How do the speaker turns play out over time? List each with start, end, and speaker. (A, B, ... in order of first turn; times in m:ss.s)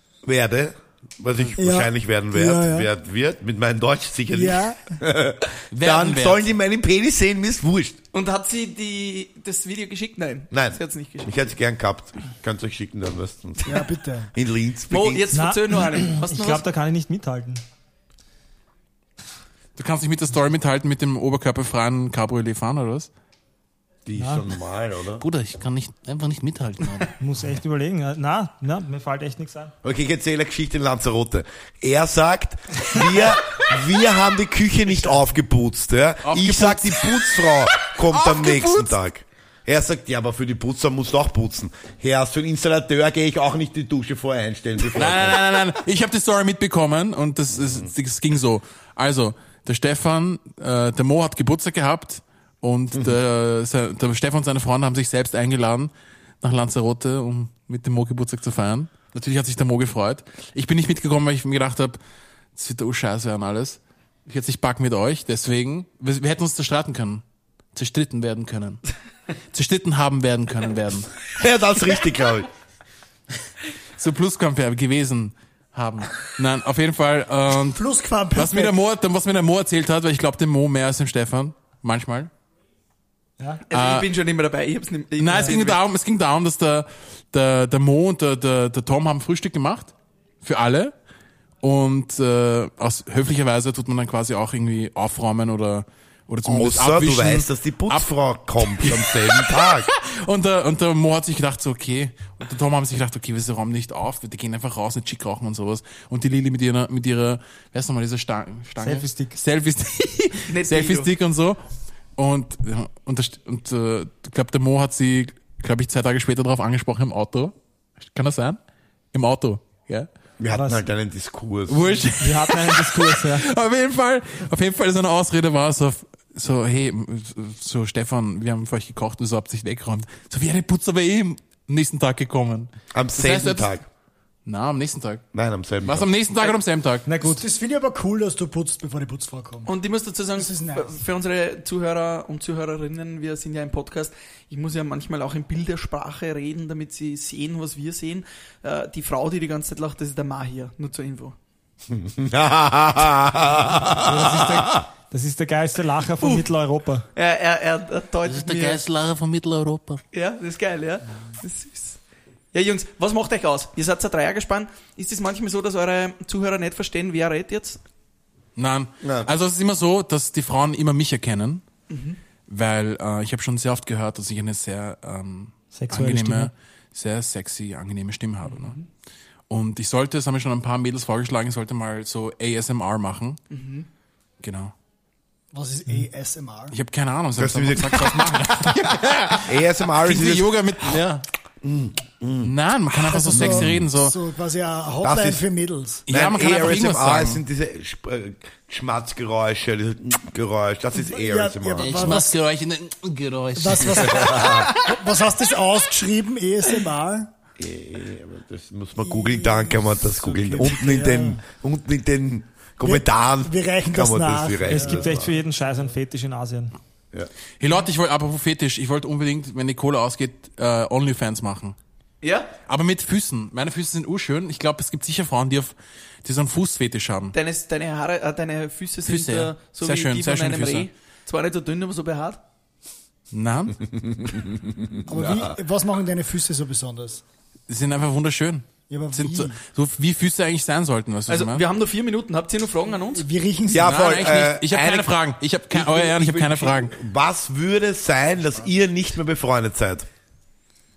0:00.2-0:08.0 A
0:01.6-0:02.9 B
0:04.3-0:05.0 B
0:05.7-0:06.4 C
0:08.1-0:11.3 D
0:10.5-0:15.3 A
0:13.6-0:14.3 B
0:14.9-0:16.6 D
0:15.3-0:17.6 E
0:19.8-0:23.1 C
0:24.0-0:25.2 A
0:24.2-0:24.4 E
0:25.2-0:27.1 F
0:27.2-0:29.7 E
0:29.8-0:45.4 A
0:36.2-0:38.9 C
0:45.0-1:02.0 C
0:47.6-0:47.9 A
1:02.6-1:07.2 C
1:07.7-1:08.8 C
1:09.5-1:11.1 C
1:11.4-1:12.5 A
1:14.0-1:17.8 C
1:17.7-1:18.7 B
1:18.3-1:22.3 C
1:23.7-1:25.8 D
1:23.7-1:24.1 C
1:25.2-1:30.9 C
1:31.6-1:38.1 C
1:36.4-1:39.9 A
1:38.6-1:51.6 C
1:48.8-1:49.4 E
1:50.5-1:51.1 D
1:52.2-1:58.6 C
1:59.1-2:00.1 C
2:00.4-2:01.9 A
2:00.5-2:00.8 E
2:01.7-2:13.7 C
2:02.2-2:03.4 E
2:12.9-2:13.8 A
2:14.4-2:15.2 C
2:15.3-2:16.1 A
2:15.8-2:17.1 C
2:17.0-2:17.4 E
2:17.2-2:19.7 B
2:19.7-2:31.4 D
2:20.3-2:21.0 B
2:31.9-2:34.7 A
2:34.0-2:37.0 E
2:36.2-2:36.5 D
2:37.1-2:38.8 D
2:38.2-2:40.0 F
2:40.1-2:42.0 D
2:42.5-2:47.8 D
2:48.6-2:51.6 C
2:49.0-2:49.3 A
2:51.9-2:52.2 D
2:52.5-2:58.8 C
2:55.7-2:56.5 E
2:58.5-2:58.8 D
2:59.5-3:03.4 C
3:03.5-3:03.9 D
3:04.4-3:04.7 C
3:05.5-3:06.8 B
3:06.7-3:11.3 C
3:07.4-3:08.4 A
3:09.4-3:11.0 A
3:11.6-3:12.5 A
3:12.4-3:14.2 C
3:13.0-3:16.0 B
3:13.3-3:13.8 A
3:15.0-3:15.4 A
3:16.1-3:17.4 C
3:16.1-3:22.2 A
3:20.9-3:22.3 B
3:21.8-3:24.5 F
3:23.6-3:27.3 B
3:24.0-3:24.7 A
3:27.6-3:35.3 A
3:29.0-3:31.4 B
3:32.8-3:35.3 B
3:34.7-3:36.7 E
3:37.6-3:41.8 C
3:42.2-3:42.5 D
3:42.7-3:47.3 C
3:47.3-3:52.4 D
3:49.0-3:50.9 C
3:53.3-3:53.8 C
3:55.1-3:57.2 B
3:55.1-3:55.6 A
3:57.7-4:01.6 C
3:58.9-3:59.6 B
4:01.3-4:03.2 D
4:03.1-4:04.1 B
4:03.7-4:05.1 A
4:03.8-4:06.9 C
4:05.7-4:10.1 A